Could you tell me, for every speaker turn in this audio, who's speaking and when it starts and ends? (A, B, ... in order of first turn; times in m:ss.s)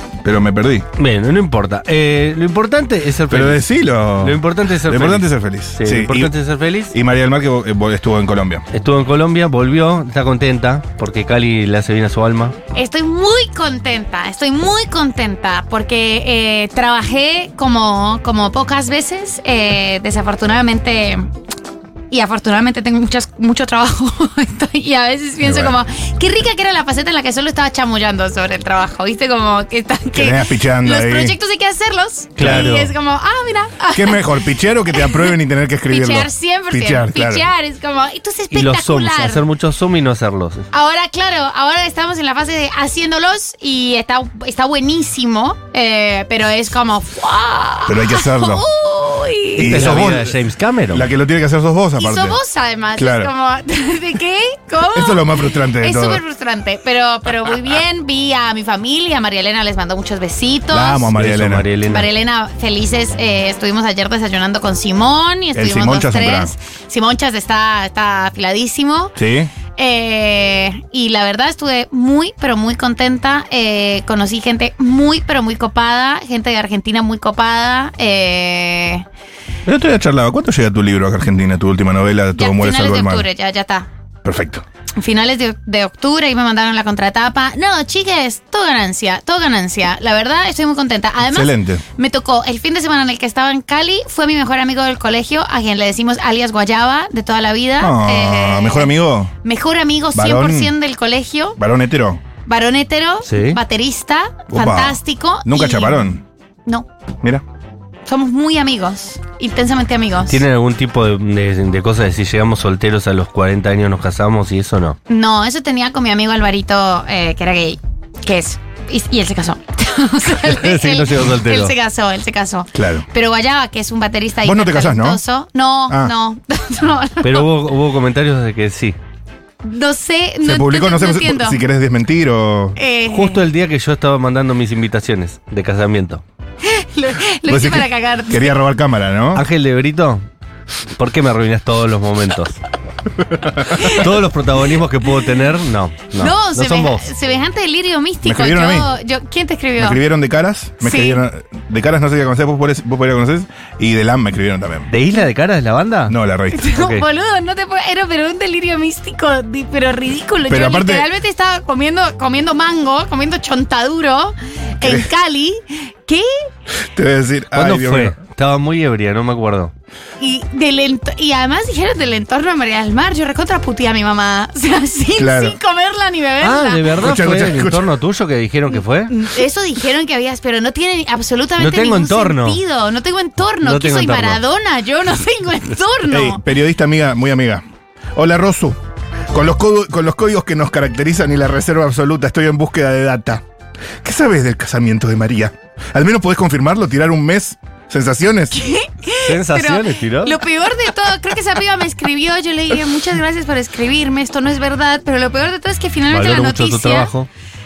0:00.2-0:00.9 A
0:01.0-0:03.7 B
0:03.3-0:06.3 A
0:04.2-0:07.0 B
0:06.9-0:08.6 A
0:08.7-0:12.6 B
0:12.7-0:21.3 C
0:22.1-0:35.4 C
0:25.4-0:25.7 A
0:30.1-0:31.4 A
0:32.4-0:32.9 B
0:32.4-0:32.8 A
0:33.9-0:37.5 A
0:35.9-0:39.5 C
0:38.5-0:40.7 B
0:40.7-0:49.9 C
0:47.9-0:48.6 A
0:49.6-0:51.1 B
0:49.6-0:50.4 A
0:50.9-0:52.4 A
0:52.0-1:01.1 C
0:53.0-0:53.3 A
0:54.9-0:56.2 A
1:00.7-1:01.7 A
1:01.2-1:02.1 B
1:01.9-1:09.2 C
1:05.6-1:06.5 A
1:09.2-1:09.5 A
1:09.8-1:19.0 C
1:19.7-1:23.3 A
1:22.4-1:23.9 C
1:24.2-1:24.6 A
1:25.0-1:41.6 C
1:31.3-1:31.8 A
1:37.8-1:39.3 A
1:40.1-1:40.8 A
1:41.6-1:42.2 A
1:42.5-1:46.9 C
1:43.3-1:43.6 B
1:44.5-1:46.2 A
1:48.1-1:50.4 C
1:50.3-1:55.0 B
1:55.1-2:07.5 C
2:00.4-2:01.8 B
2:02.7-2:03.1 A
2:04.4-2:05.2 A
2:05.9-2:06.1 A
2:07.2-2:09.0 B
2:09.6-2:11.6 C
2:10.4-2:12.8 A
2:12.8-2:13.4 C
2:13.1-2:16.2 B
2:16.6-2:18.6 C
2:17.5-2:19.4 A
2:19.4-2:20.2 B
2:21.0-2:22.6 B
2:23.6-2:27.1 B
2:23.7-2:24.0 C
2:26.2-2:30.0 C
2:28.2-2:28.9 A
2:29.8-2:34.9 A
2:30.8-2:31.2 C
2:34.9-2:36.2 B
2:36.1-2:36.7 A
2:36.5-2:46.5 C
2:36.8-2:37.1 B
2:40.5-2:41.1 A
2:44.8-2:45.1 A
2:46.8-2:48.2 A
2:47.5-2:49.7 B
2:50.2-2:57.0 C
2:55.2-2:55.6 A
2:56.4-2:59.1 B
2:57.0-2:57.9 A
2:59.1-3:06.4 C
3:01.6-3:02.6 B
3:03.6-3:04.4 B
3:06.1-3:07.6 A
3:08.2-3:08.8 A
3:09.3-3:13.4 A
3:14.0-3:18.6 A
3:18.5-3:27.1 C
3:19.2-3:20.4 B
3:26.1-3:27.3 B